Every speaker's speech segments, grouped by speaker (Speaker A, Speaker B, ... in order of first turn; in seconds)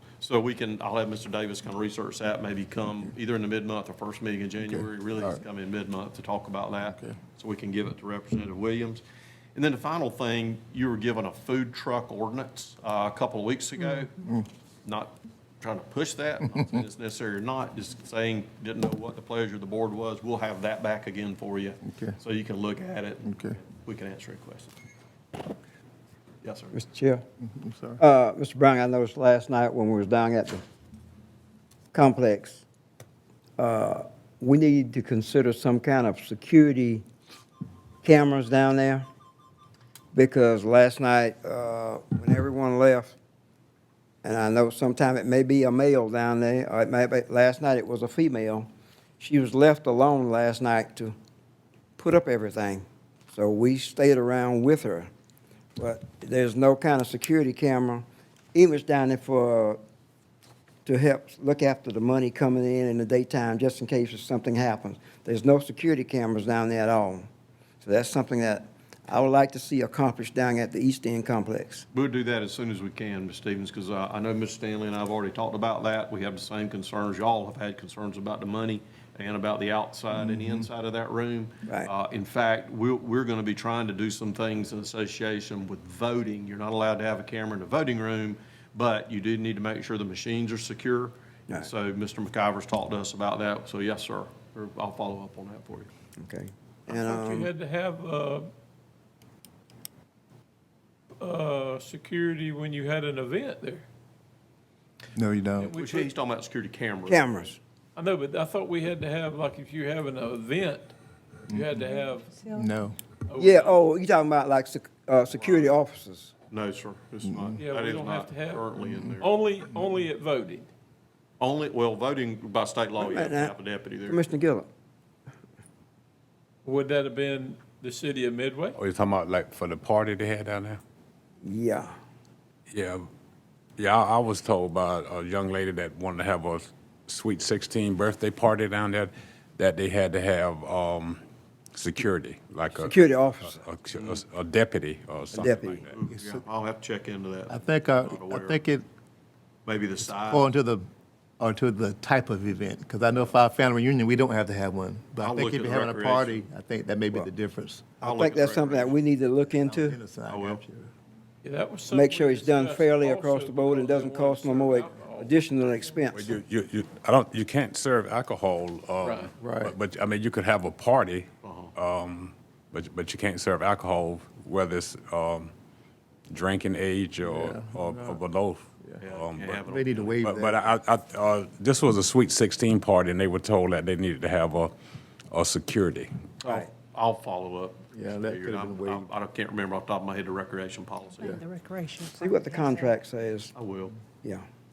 Speaker A: 0.2-9.0, 9.6-14.1, 14.8-24.7, 26.4-26.8, 71.9-95.9, 105.6-107.3, 115.3-115.7, 116.5-119.3, 121.4-124.2, 145.7-148.6, 149.7-150.5, 155.2-156.4, 158.0-159.0, 160.3-160.6, 171.4-171.7, 179.0-180.2, 186.4-191.4, 193.6-194.0
Speaker B: 4.7-5.4, 14.2-14.5, 21.9-22.2, 23.3-23.6, 27.4-28.0, 80.1-80.7, 105.2-105.7, 111.5-111.8, 112.5-113.0, 117.3-117.6, 146.1-146.4, 147.5-148.9, 150.2-150.8, 151.4-157.9, 159.5-160.9, 169.4-169.8, 177.3-178.2, 179.7-180.7, 187.9-189.1
Speaker C: 26.7-27.2, 28.0-30.6, 31.9-32.6, 33.6-37.0, 38.0-39.1, 40.1-43.2, 44.2-48.7, 49.2-51.1, 52.0-55.1, 55.8-59.8, 60.9-67.3, 67.8-71.9, 96.2-97.5, 107.1-107.6, 113.4-116.3, 123.0-123.5, 124.1-124.7, 131.4-131.9, 142.7-143.7, 145.3-145.8, 158.0-160.0, 161.9-166.4, 192.1-193.5
Speaker D: 96.9-98.5, 101.2-103.9, 105.6-106.1, 108.0-110.9, 111.5-112.5, 113.3-113.9, 117.6-118.7, 119.2-120.7, 126.7-128.8, 161.4-165.9, 169.0-169.3
Speaker E: 128.8-130.8, 132.7-133.1, 133.8-141.2, 141.8-145.9, 166.1-175.5, 176.3-179.6, 180.2-184.7, 185.3-186.1